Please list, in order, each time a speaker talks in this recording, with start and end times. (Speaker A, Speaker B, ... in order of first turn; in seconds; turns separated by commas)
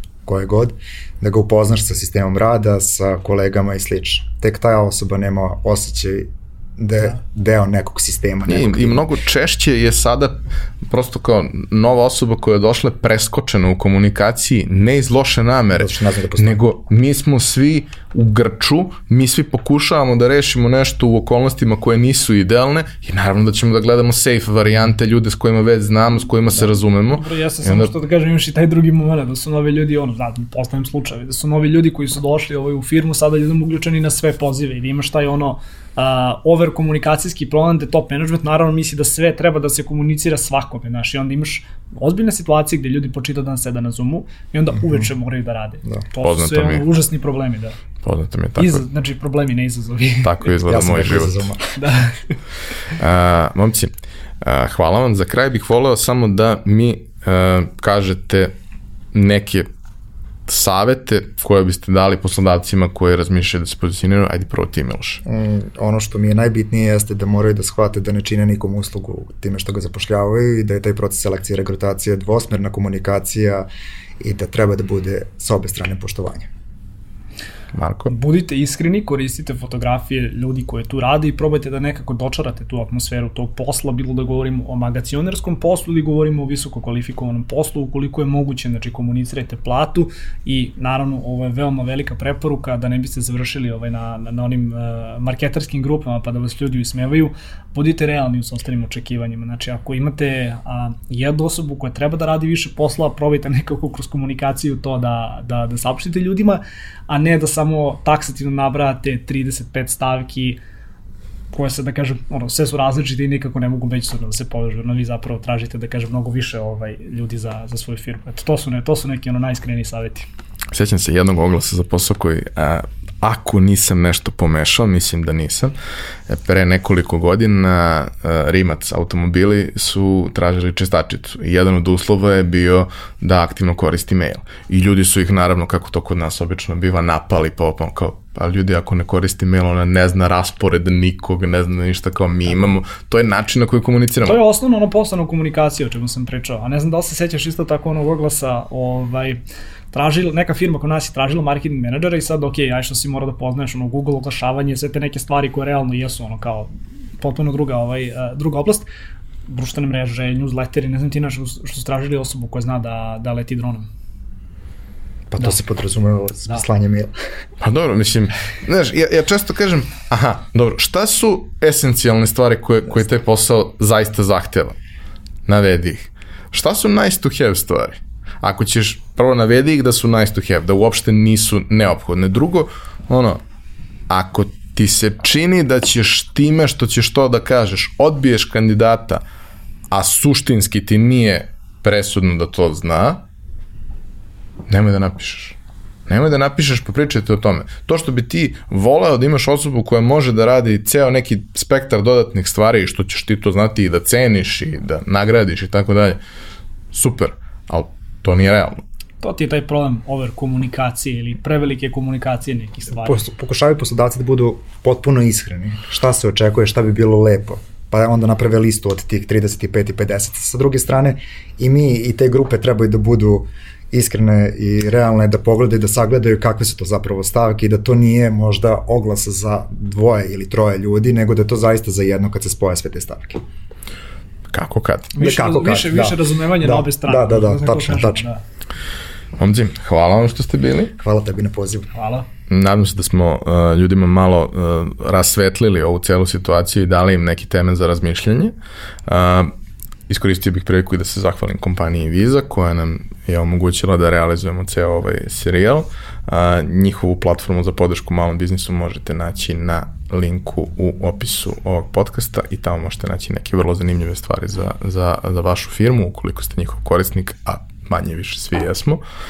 Speaker A: 0.3-9.1, Speaker B: 8.5-27.9, Speaker A: 15.7-16.6, Speaker C: 27.1-47.8, Speaker B: 46.2-46.9, Speaker B: 48.0-48.8, Speaker C: 48.6-50.4, Speaker B: 50.2-51.5, Speaker A: 50.7-51.7, Speaker C: 51.8-52.4, Speaker B: 52.9-58.5, Speaker B: 59.1-59.7, Speaker B: 60.5-65.2, Speaker A: 65.2-73.7, Speaker A: 74.2-76.5, Speaker B: 77.7-78.1, Speaker C: 78.1-110.6, Speaker C: 111.5-120.3, Speaker B: 120.7-125.8, Speaker B: 126.3-144.4, Speaker C: 144.2-149.4, Speaker C: 149.9-158.9, Speaker C: 159.5-163.9, Speaker A: 165.3-167.1, Speaker B: 167.6-174.8, Speaker B: 175.5-183.4, Speaker B: 184.1-189.2, Speaker B: 189.9-193.2, Speaker B: 194.7-206.2, Speaker B: 206.9-208.8, Speaker C: 209.2-213.2, Speaker A: 213.0-233.4, Speaker B: 234.5-235.2, Speaker C: 235.2-238.4, Speaker A: 235.2-238.2, Speaker B: 239.4-240.9, Speaker A: 241.0-241.9, Speaker C: 241.9-242.3, Speaker B: 242.5-248.5, Speaker B: 249.1-249.5, Speaker B: 250.1-269.0